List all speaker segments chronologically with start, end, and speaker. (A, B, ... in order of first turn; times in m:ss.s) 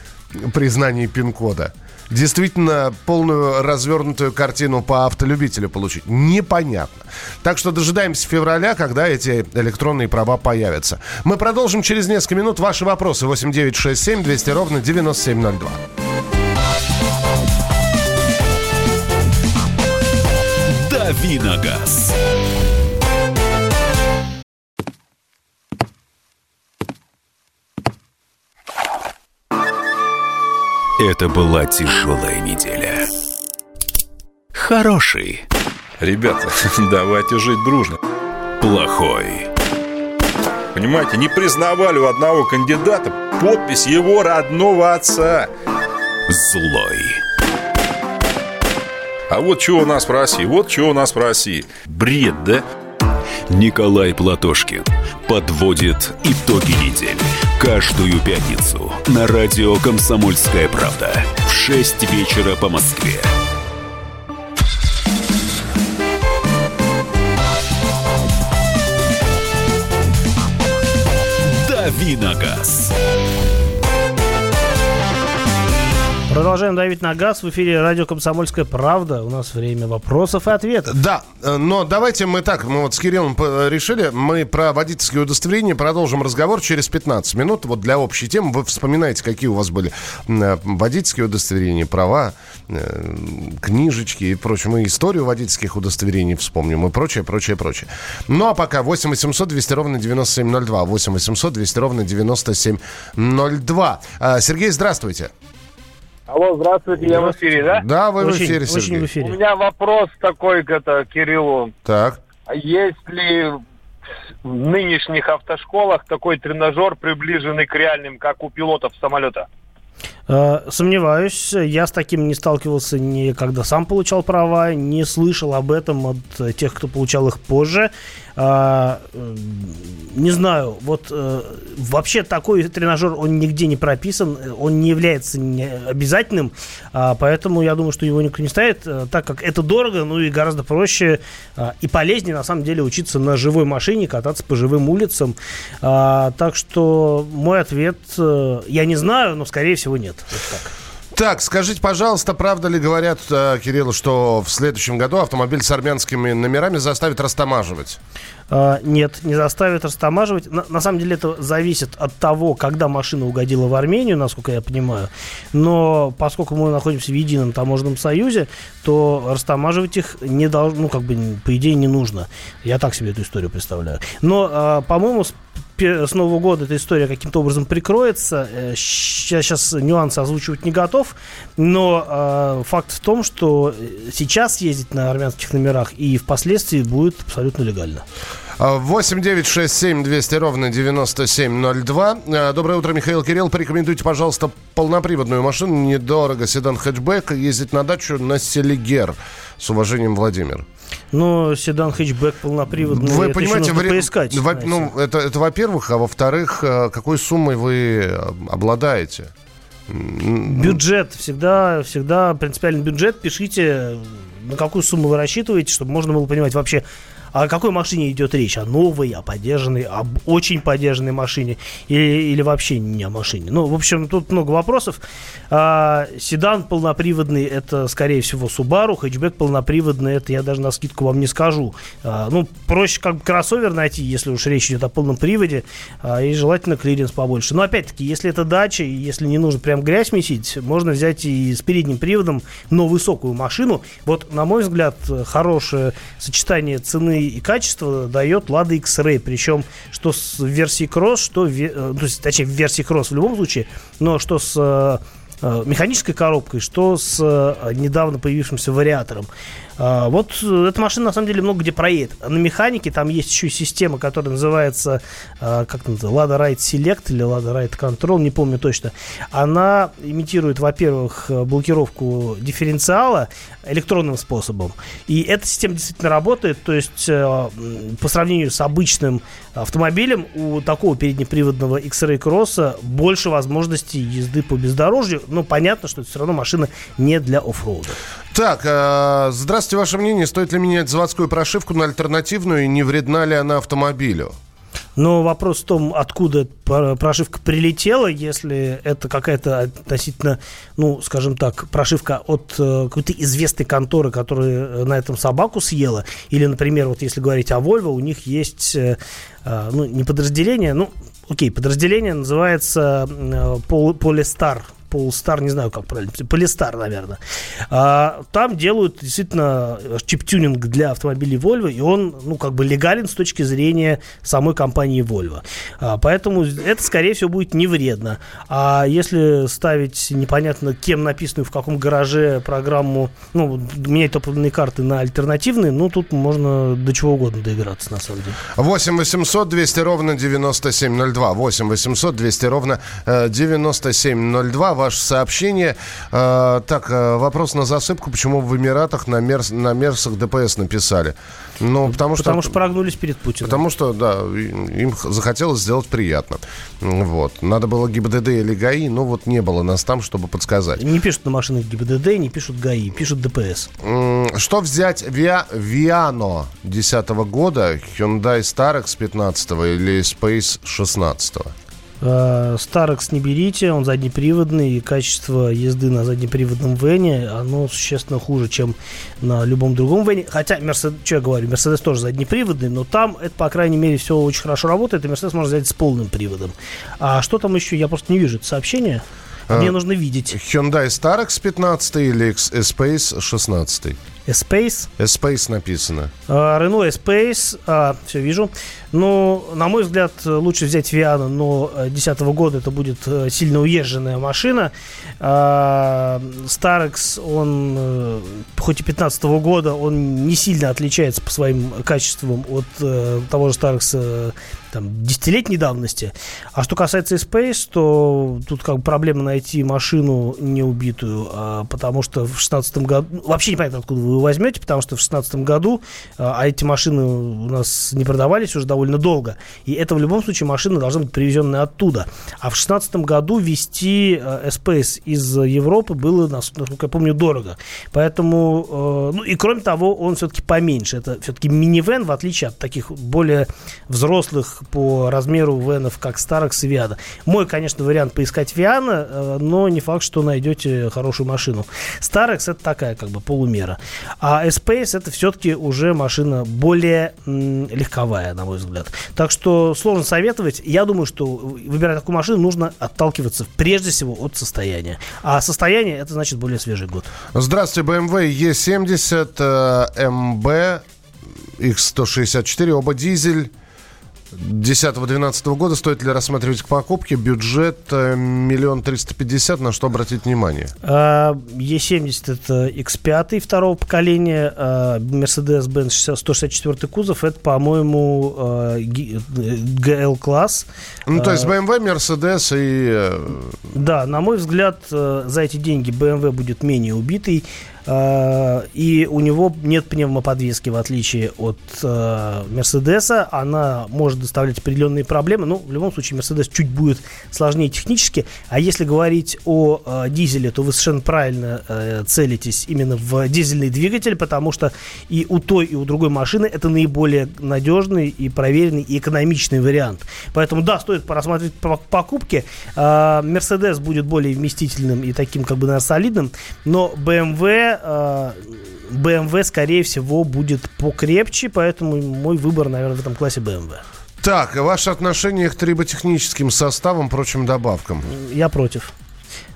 0:00.3-0:15.8 A
0:20.7-0:22.2 B
0:31.0-0:33.0 B
0:34.5-0:35.4 B
0:36.0-0:38.0 C
0:38.6-0:39.5 B
0:40.7-0:45.5 C
0:46.3-0:47.2 B
0:49.3-0:52.6 C
0:53.5-1:03.3 B
1:11.4-1:12.9 B
1:16.3-1:20.9 D
1:20.9-1:45.3 A
1:46.3-1:47.8 E
1:47.7-1:49.1 A
1:48.2-1:49.4 D
1:49.2-1:51.7 E
1:51.8-1:52.2 A
1:52.5-1:53.6 E
1:54.4-1:59.5 E
2:00.3-2:30.7 D
2:31.1-2:38.0 A
2:38.5-3:08.0 D
3:08.6-3:20.6 A
3:21.1-3:24.9 D
3:22.8-3:29.3 A
3:29.9-3:30.8 A
3:30.5-3:45.0 D
3:45.5-4:48.0 D
4:48.3-4:54.3 A
4:55.0-5:17.2 D
5:17.7-5:38.4 D
5:38.5-5:52.5 A
5:51.8-5:53.6 D
5:53.4-6:00.8 A
6:00.8-6:03.7 D
6:03.8-6:11.5 A
6:12.0-6:30.4 D
6:29.5-6:29.8 A
6:30.3-6:34.0 A
6:34.3-6:34.9 D
6:35.0-6:36.1 A
6:36.3-7:47.1 D
7:47.3-7:50.8 A
7:51.6-7:53.5 A
7:54.3-8:00.7 A
8:00.8-8:11.5 D
8:11.1-8:13.6 A
8:13.7-8:53.8 D
8:54.2-8:58.1 A
8:58.1-8:58.9 D